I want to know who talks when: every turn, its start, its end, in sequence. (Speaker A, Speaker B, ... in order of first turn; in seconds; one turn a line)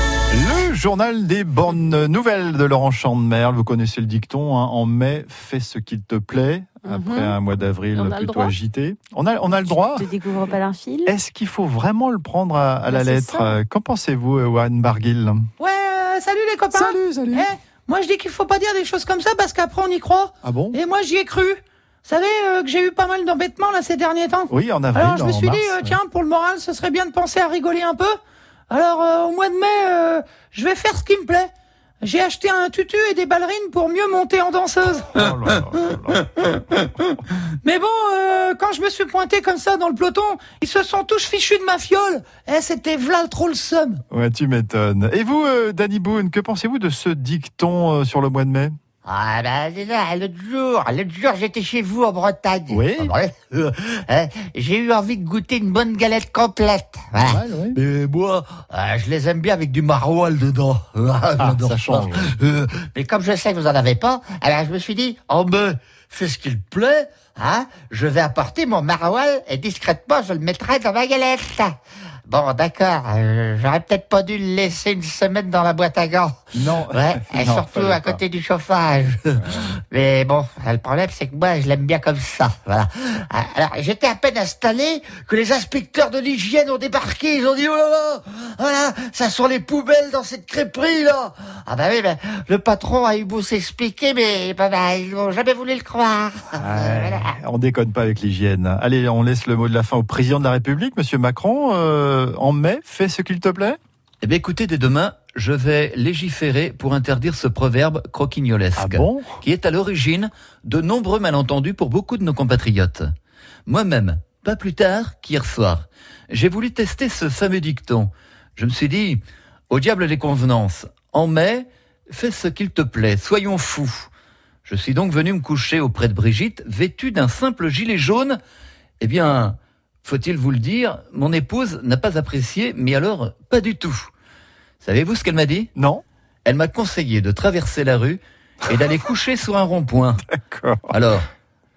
Speaker A: 0.3-10.1
Speaker B: 6.9-7.4
Speaker B: 8.0-8.5
Speaker B: 9.8-11.1
Speaker A: 11.1-15.5
Speaker B: 12.9-13.6
Speaker C: 15.6-28.2
Speaker A: 16.7-17.5
Speaker A: 20.4-20.8
Speaker A: 24.5-26.0
Speaker C: 28.7-31.5
Speaker C: 32.0-35.3
Speaker A: 35.1-36.3
Speaker C: 37.6-44.0
Speaker A: 44.1-48.7
Speaker D: 49.0-71.8
Speaker A: 52.7-53.1
Speaker A: 57.2-57.8
Speaker A: 61.4-62.3
Speaker D: 72.3-97.3
Speaker A: 76.5-78.2
Speaker A: 96.5-103.8
Speaker E: 104.2-113.1
Speaker A: 108.8-109.4
Speaker E: 113.7-124.1
Speaker E: 124.7-128.4
Speaker E: 129.0-134.1
Speaker E: 134.8-135.7
Speaker A: 135.8-136.0
Speaker E: 136.4-140.2
Speaker A: 140.3-140.9
Speaker E: 140.9-141.3